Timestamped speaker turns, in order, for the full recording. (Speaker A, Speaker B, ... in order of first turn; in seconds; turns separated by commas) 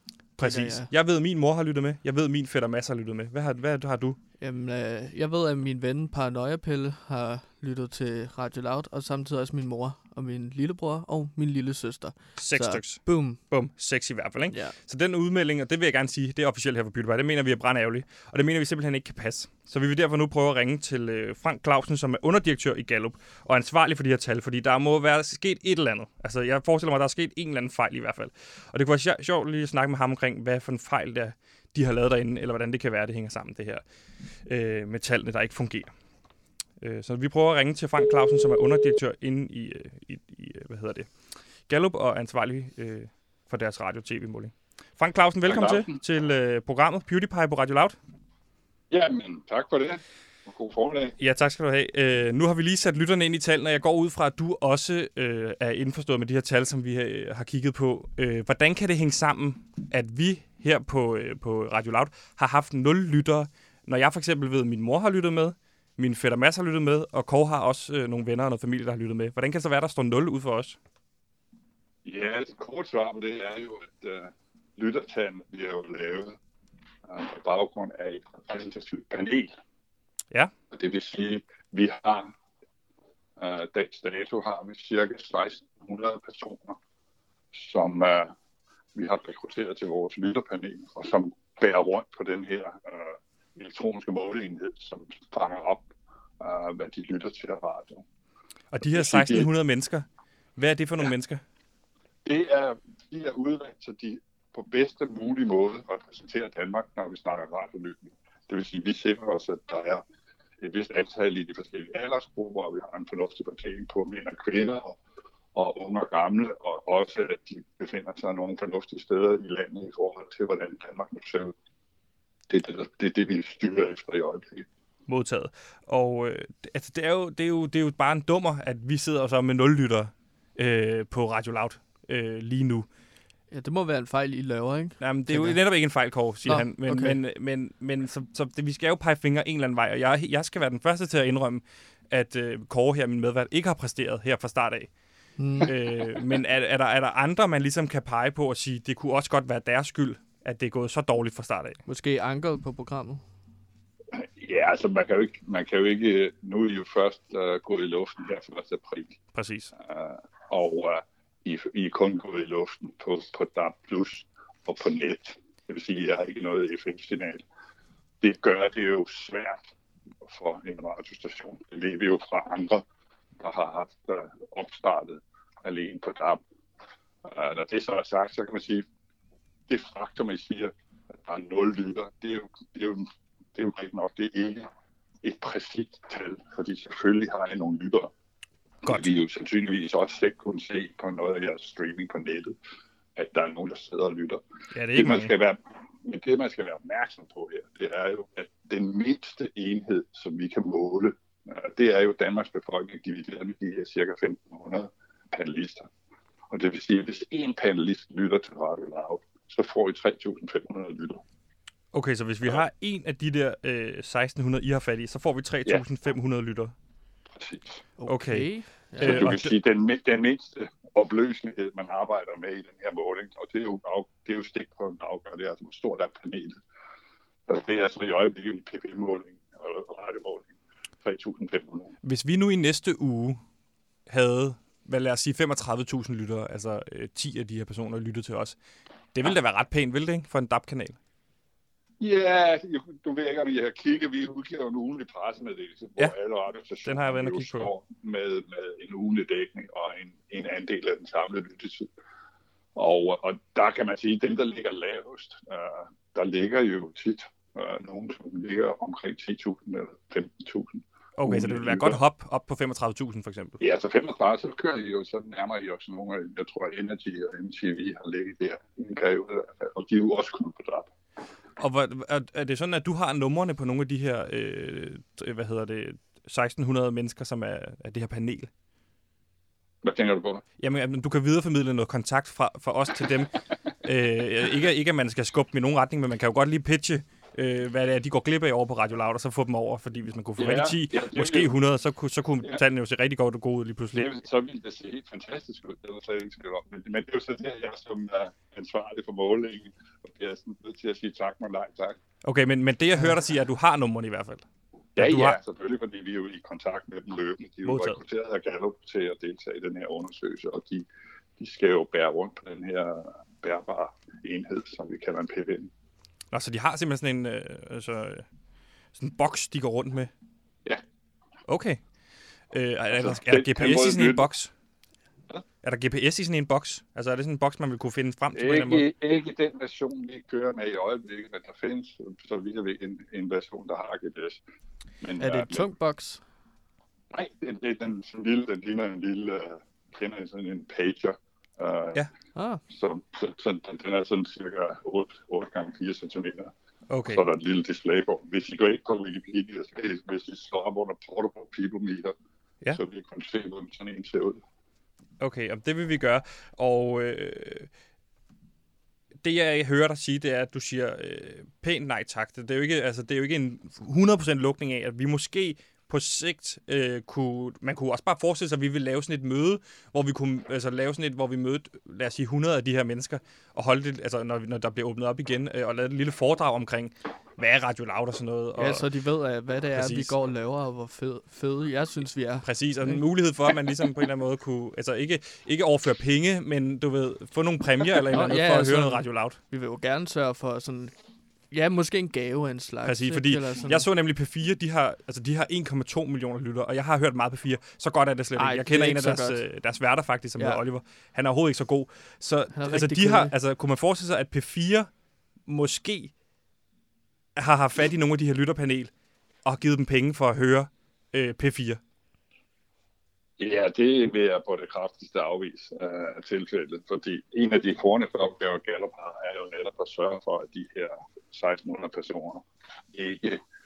Speaker A: 0.3-0.9, Speaker B: 0.4-4.2, Speaker A: 4.4-13.4, Speaker B: 12.4-33.8, Speaker A: 14.5-14.8, Speaker B: 34.4-35.9, Speaker B: 36.8-41.1, Speaker B: 41.7-48.0, Speaker C: 45.4-46.0, Speaker C: 48.9-51.1, Speaker B: 51.2-70.8, Speaker C: 72.0-76.3, Speaker C: 77.1-79.5, Speaker C: 80.7-82.3, Speaker C: 83.4-86.8, Speaker C: 87.5-88.3, Speaker C: 88.9-98.0, Speaker B: 98.7-101.4, Speaker C: 98.8-99.5, Speaker C: 102.2-110.0, Speaker C: 110.6-115.0, Speaker C: 115.5-121.5, Speaker C: 122.5-124.7, Speaker B: 125.1-132.9, Speaker A: 133.5-135.6, Speaker B: 135.0-144.9, Speaker A: 136.4-137.2, Speaker A: 145.4-145.7, Speaker B: 145.6-151.8, Speaker A: 151.8-153.2, Speaker C: 154.1-159.2, Speaker B: 159.3-159.7, Speaker C: 159.8-167.4, Speaker C: 168.2-169.6, Speaker C: 170.2-172.8, Speaker C: 173.4-176.4, Speaker C: 177.2-178.8, Speaker C: 179.7-184.7, Speaker C: 185.2-188.1, Speaker C: 188.8-192.6, Speaker B: 188.8-189.1, Speaker C: 193.1-205.9, Speaker B: 194.7-195.3, Speaker C: 206.5-211.2, Speaker B: 211.9-216.7, Speaker C: 217.3-217.8, Speaker A: 218.0-219.3, Speaker B: 218.1-219.5, Speaker C: 219.0-226.6, Speaker C: 227.5-230.5, Speaker C: 231.0-231.9, Speaker B: 232.0-233.4, Speaker B: 234.1-238.6, Speaker B: 239.1-241.0, Speaker C: 242.0-251.9, Speaker B: 246.8-247.7, Speaker C: 252.7-262.0, Speaker B: 261.2-263.6, Speaker C: 263.6-270.9, Speaker B: 271.6-278.5, Speaker C: 279.8-280.4, Speaker B: 280.6-283.3, Speaker B: 283.8-294.1, Speaker C: 290.4-291.5, Speaker C: 293.9-302.0, Speaker B: 302.2-304.4, Speaker C: 304.9-310.9, Speaker B: 305.0-305.4, Speaker B: 307.6-308.0, Speaker C: 311.4-315.7, Speaker B: 316.3-318.2, Speaker B: 318.9-320.1, Speaker B: 321.5-321.8, Speaker B: 322.5-324.5, Speaker C: 322.9-324.3, Speaker B: 325.6-328.9, Speaker C: 328.3-334.4, Speaker C: 335.0-335.6, Speaker A: 335.2-336.2, Speaker C: 337.1-342.1, Speaker A: 342.3-342.6, Speaker C: 342.7-346.5, Speaker B: 346.9-347.2, Speaker C: 347.0-352.1, Speaker C: 352.7-354.4, Speaker B: 355.2-357.7, Speaker B: 359.2-378.9, Speaker A: 378.6-383.0, Speaker B: 379.7-380.1, Speaker B: 382.4-389.4, Speaker A: 388.1-390.9, Speaker A: 391.5-393.9, Speaker B: 392.8-404.9, Speaker A: 398.4-399.4, Speaker A: 402.5-403.3, Speaker B: 405.4-406.1, Speaker B: 407.4-408.9, Speaker B: 409.4-411.8, Speaker C: 413.4-423.4